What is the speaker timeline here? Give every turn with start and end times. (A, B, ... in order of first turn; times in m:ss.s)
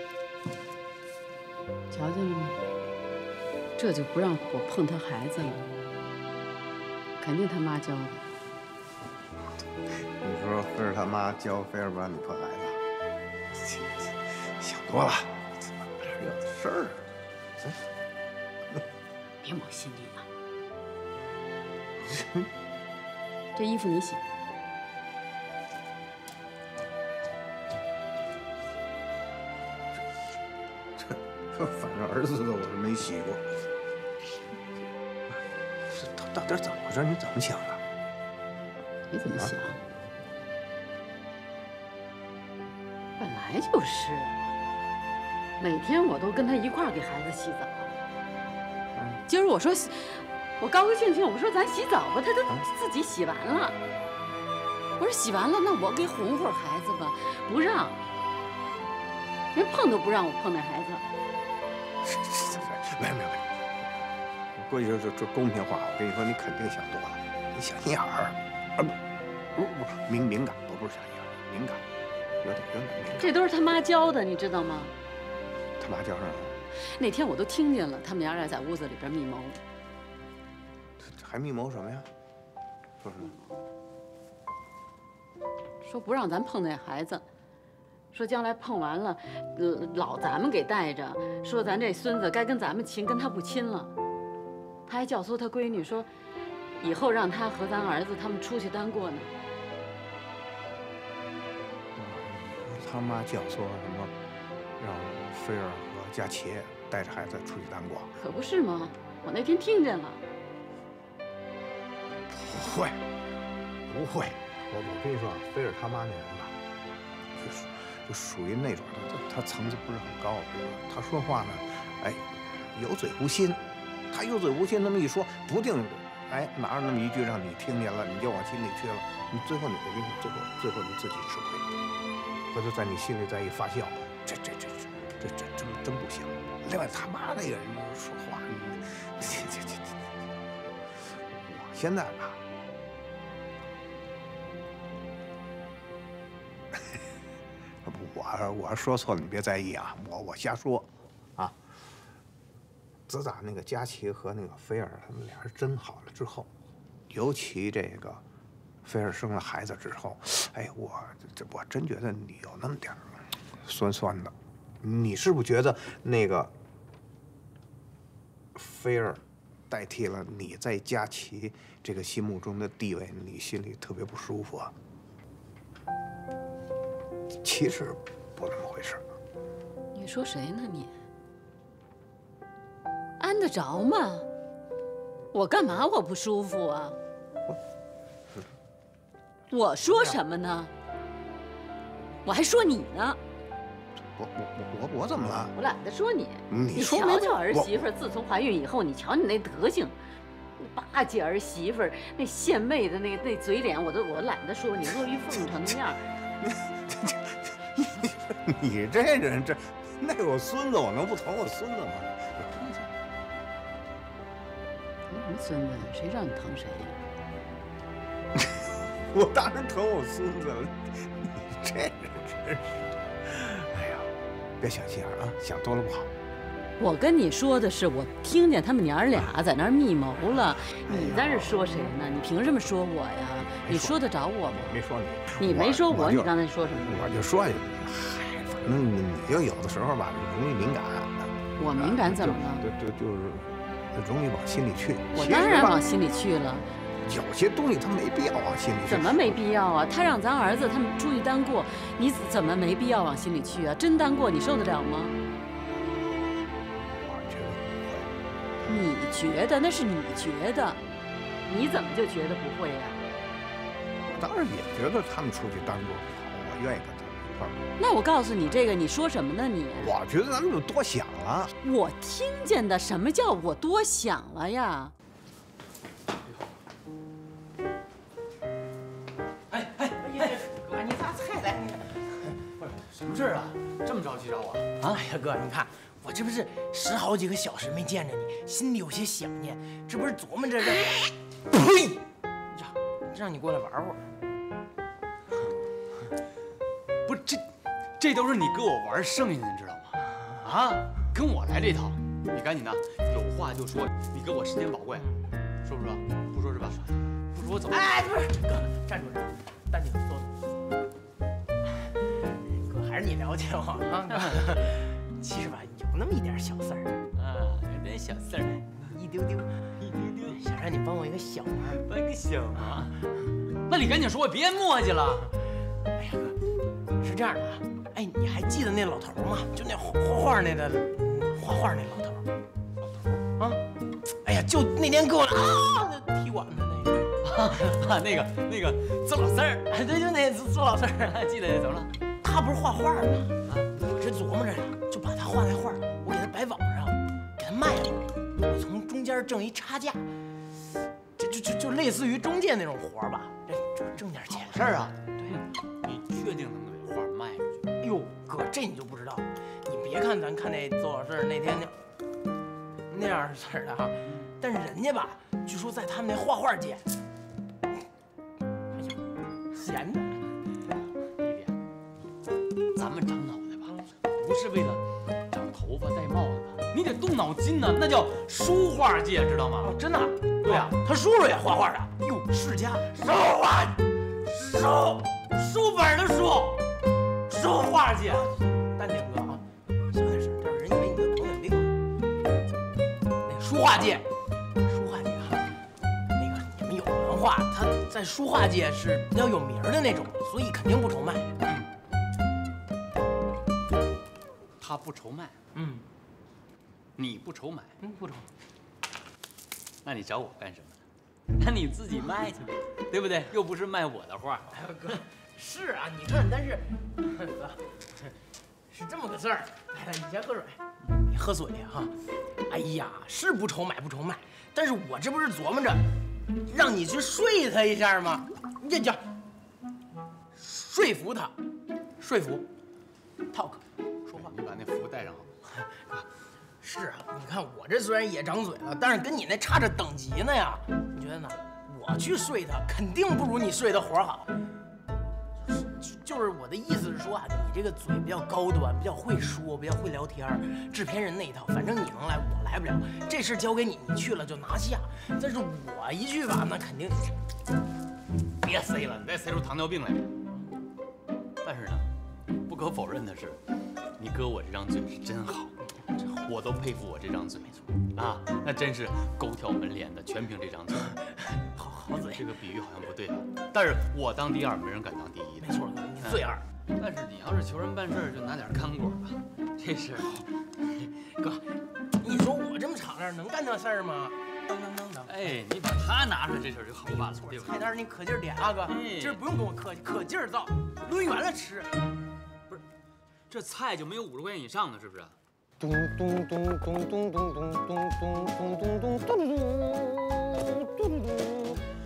0:01.9-0:02.5 A
0:03.8-0:05.6 A
0:07.2-0:08.2 A
0:10.2-0:12.8 B
0:13.5-0:17.0 B
0:19.4-0:20.3 A
0:22.0-0:22.5 B
0:23.5-0:24.2 A
0:31.0-0:33.6 B
0:35.9-0:37.8 B
0:39.1-0:39.8 A
0:43.2-0:44.4 A
0:45.6-0:47.9 A
0:48.9-0:49.2 B
0:49.2-0:53.8 A
0:55.0-0:58.0 A
0:59.5-1:01.0 A
1:02.0-1:03.6 B
1:04.5-1:09.0 B
1:09.5-1:11.8 B
1:12.4-1:13.4 B
1:13.2-1:14.9 A
1:15.8-1:16.6 B
1:17.0-1:19.6 A
1:21.0-1:22.1 B
1:23.0-1:23.3 B
1:25.8-1:27.2 A
1:28.1-1:33.9 A
1:34.9-1:36.1 A
1:36.8-1:39.3 A
1:41.9-1:44.1 B
1:44.8-1:48.1 B
1:48.2-1:50.2 A
1:52.3-1:53.0 B
1:53.9-1:56.5 B
1:57.3-2:11.7 B
2:12.5-2:20.1 B
2:21.0-2:22.4 B
2:27.8-2:31.6 B
2:33.1-2:36.5 B
2:37.1-2:38.2 B
2:38.8-2:46.5 B
2:48.5-2:54.7 B
2:57.4-2:59.0 B
2:59.9-3:00.9 A
3:03.2-3:04.3 A
3:05.3-3:07.0 A
3:09.5-3:10.7 A
3:09.9-3:10.2 B
3:12.2-3:13.2 A
3:13.9-3:15.5 B
3:15.5-3:19.9 A
3:16.5-3:17.8 B
3:20.6-3:26.0 A
3:25.4-3:25.8 B
3:26.4-3:32.8 B
3:35.1-3:37.0 A
3:38.4-3:46.1 B
3:46.8-3:54.8 A
3:50.7-3:51.5 B
3:53.4-4:05.8 B
3:55.4-3:57.0 A
4:01.6-4:02.6 A
4:05.1-4:06.6 A
4:07.0-4:09.4 B
4:08.9-4:15.1 A
4:16.8-4:18.1 B
4:18.6-4:20.8 A
4:21.5-4:23.0 A
4:24.0-4:27.6 B
4:27.8-4:29.9 A
4:29.8-4:31.5 B
4:31.6-4:34.9 A
4:39.5-4:42.4 C
4:42.6-4:45.0 D
4:44.8-4:52.0 C
4:52.5-4:54.0 C
4:57.0-4:57.4 D
4:58.0-5:05.1 D
5:04.9-5:05.2 C
5:05.6-5:07.9 D
5:07.7-5:10.3 C
5:12.6-5:17.0 C
5:17.1-5:19.0 D
5:18.8-5:19.5 C
5:19.8-5:20.4 D
5:20.3-5:21.8 C
5:21.8-5:22.9 D
5:23.7-5:25.3 D
5:26.0-5:26.4 C
5:27.0-5:32.2 C
5:34.2-5:37.1 C
5:37.2-5:39.7 D
5:39.7-5:41.1 C
5:41.0-5:41.9 D
5:42.2-5:50.0 C
5:51.2-5:55.4 C
5:54.3-5:57.6 D
5:57.8-6:01.7 C
6:02.9-6:06.8 C
6:08.7-6:09.0 C
6:09.5-6:10.2 C
6:11.1-6:11.6 D
6:12.7-6:19.8 D
6:19.6-6:23.7 C
6:20.4-6:20.8 D
6:23.1-6:23.7 D
6:24.4-6:24.7 D
6:24.4-6:25.0 C
6:25.2-6:26.6 D
6:27.3-6:28.3 D
6:28.0-6:31.7 C
6:33.2-6:34.1 C
6:34.6-6:35.4 C
6:36.1-6:41.6 C
6:44.6-6:45.4 D
6:45.5-6:45.8 C
6:47.0-6:47.7 D
6:47.8-6:48.3 C
6:49.8-6:50.8 D
6:51.4-6:54.6 D
6:54.5-6:58.1 C
6:58.7-7:01.9 C
7:02.5-7:05.8 C
7:06.5-7:09.0 C
7:10.3-7:11.3 C
7:12.0-7:12.4 C
7:13.3-7:14.3 C
7:14.1-7:15.3 D
7:15.6-7:16.0 C
7:16.6-7:24.3 C
7:25.4-7:37.1 C
7:38.4-7:40.1 D
7:41.4-7:41.9 D
7:42.4-7:43.4 D
7:44.0-7:45.5 D
7:46.1-7:51.0 D
7:51.3-7:52.2 C
7:51.9-7:56.2 D
7:55.4-7:56.4 C
7:56.7-8:00.2 D
8:01.2-8:01.4 C
8:02.0-8:05.1 C
8:05.0-8:07.5 D
8:06.8-8:11.7 C
8:08.7-8:09.2 D
8:13.3-8:15.1 D
8:15.6-8:21.6 C